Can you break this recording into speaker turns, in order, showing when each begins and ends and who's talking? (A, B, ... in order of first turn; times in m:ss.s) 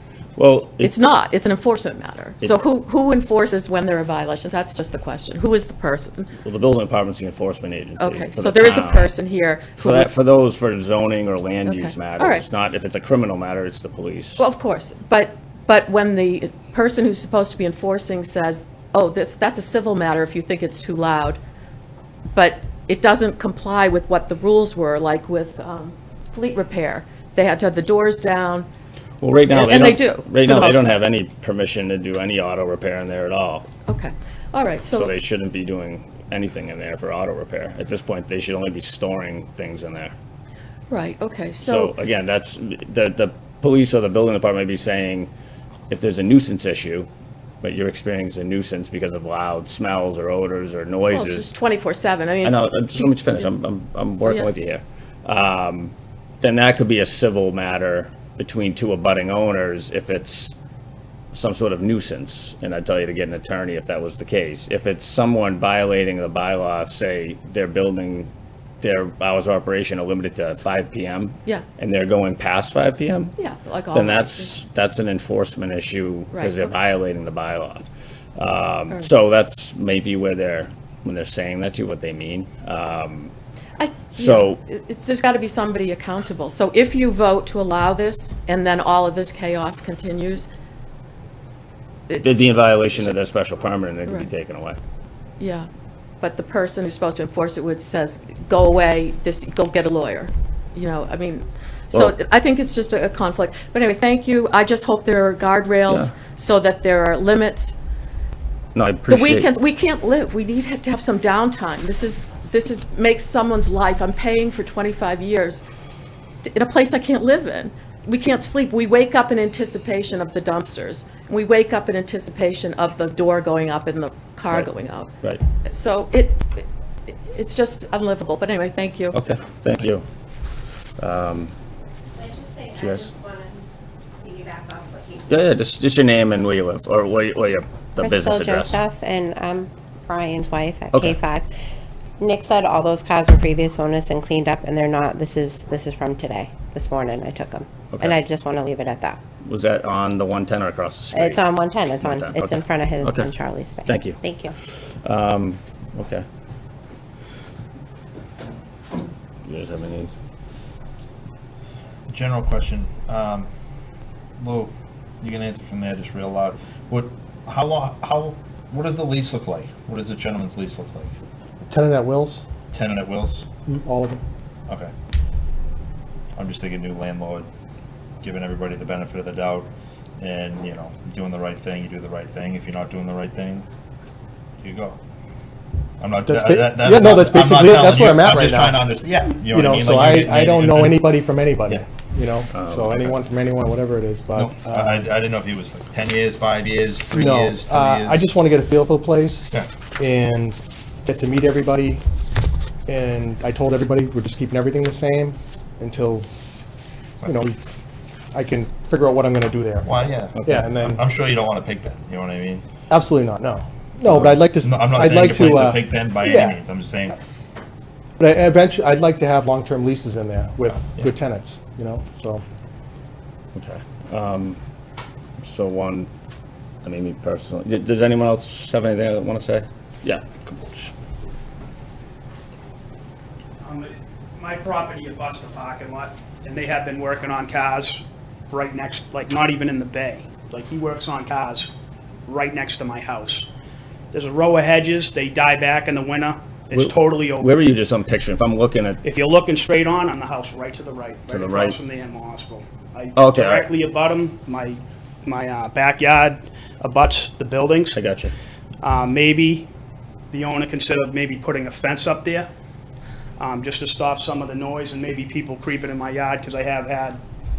0:00.4-0:00.9 A
0:00.8-0:06.3 B
0:06.4-0:09.1 A
0:08.0-0:10.1 B
0:09.8-0:14.5 A
0:11.7-0:12.4 B
0:14.4-0:21.4 B
0:22.3-0:28.7 B
0:29.2-0:33.7 A
0:29.5-0:30.9 B
0:33.9-0:35.1 B
0:34.9-0:40.2 A
0:40.9-0:41.9 B
0:41.6-0:45.3 A
0:45.9-0:47.1 A
0:47.6-0:51.5 A
0:51.1-0:53.5 B
0:52.4-1:00.5 A
1:01.3-1:13.4 A
1:13.4-1:14.5 B
1:13.9-1:17.8 A
1:16.3-1:16.6 B
1:18.4-1:23.3 A
1:23.8-1:30.5 B
1:24.1-1:24.6 A
1:32.1-1:32.4 B
1:32.2-1:34.8 A
1:35.4-1:35.7 B
1:36.2-1:47.8 B
1:41.9-1:42.2 A
1:48.8-1:49.5 A
1:49.1-1:55.6 B
1:56.4-2:05.1 B
2:05.6-2:09.2 B
2:09.1-2:10.0 A
2:11.0-2:11.5 A
2:12.2-2:15.3 C
2:12.8-2:13.1 A
2:15.3-2:18.8 A
2:18.0-2:21.5 C
2:22.2-2:29.2 C
2:27.9-2:28.2 A
2:29.4-2:31.4 A
2:31.1-2:34.6 C
2:32.0-2:33.3 A
2:33.9-2:34.2 A
2:35.0-2:36.2 A
2:39.4-2:40.1 A
2:42.1-2:43.5 D
2:44.4-2:51.1 D
2:51.7-2:52.4 E
2:52.7-2:53.5 D
2:53.7-2:54.2 E
2:56.4-2:57.5 D
2:58.2-3:03.7 D
3:04.6-3:05.0 D
3:06.0-3:11.0 D
3:06.3-3:08.8 E
3:09.4-3:15.0 E
3:12.5-3:13.1 A
3:14.4-3:18.2 D
3:17.1-3:22.0 E
3:22.9-3:26.3 E
3:27.2-3:27.6 E
3:28.3-3:31.0 E
3:29.9-3:32.6 D
3:30.4-3:30.6 A
3:32.9-3:36.6 E
3:34.6-3:37.2 D
3:38.2-3:42.4 E
3:43.6-3:44.6 A
3:45.4-3:46.1 A
3:46.8-3:50.9 A
3:53.6-4:01.7 F
4:02.3-4:03.5 F
4:04.1-4:07.6 F
4:06.7-4:09.0 A
4:09.0-4:18.0 F
4:11.3-4:11.8 A
4:13.2-4:13.7 A
4:17.9-4:18.3 A
4:18.8-4:19.7 F
4:20.3-4:22.5 F
4:23.4-4:27.2 F